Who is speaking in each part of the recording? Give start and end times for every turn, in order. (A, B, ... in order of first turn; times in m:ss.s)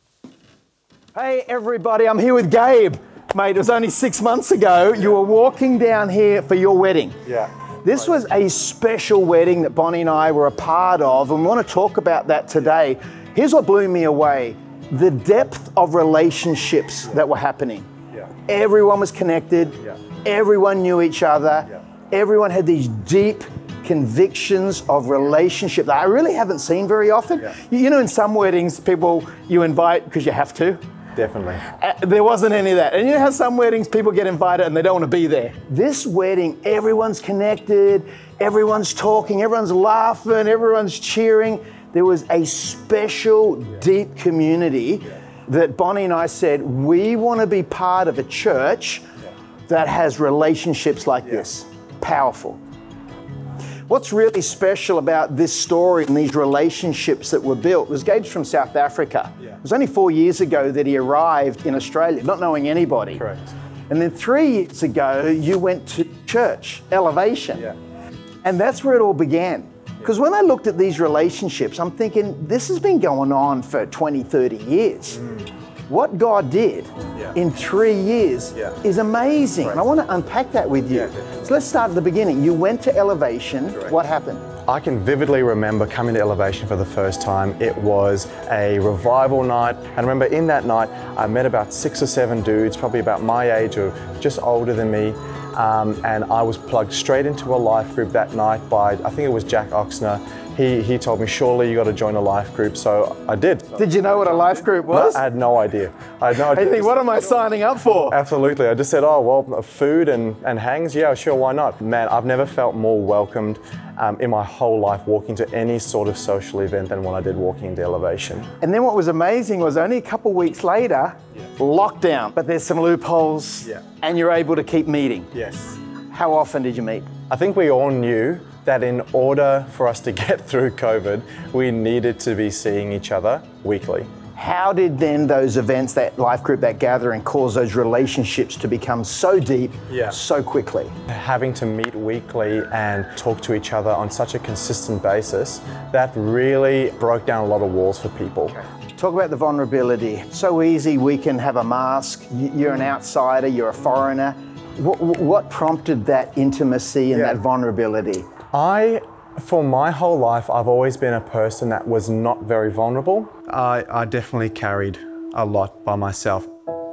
0:01.2-0:07.3 A
0:07.8-0:17.9 A
0:18.5-0:30.8 A
0:31.2-0:31.6 B
0:31.6-0:49.0 A
0:49.7-0:52.6 A
0:53.9-1:03.2 A
1:03.2-1:03.6 B
1:03.9-1:07.7 A
1:08.4-1:15.3 A
1:15.9-1:24.5 A
1:24.6-1:43.9 B
1:43.8-1:45.2 A
1:44.9-1:47.1 B
1:46.5-1:48.2 A
1:48.1-1:58.5 B
1:58.6-2:05.3 A
2:05.3-2:05.8 B
2:06.1-2:07.1 A
2:07.3-2:14.1 B
2:14.4-2:20.9 A
2:19.9-2:20.2 B
2:21.1-2:28.6 B
2:29.0-2:38.3 A
2:37.1-2:37.4 B
2:38.5-2:46.5 B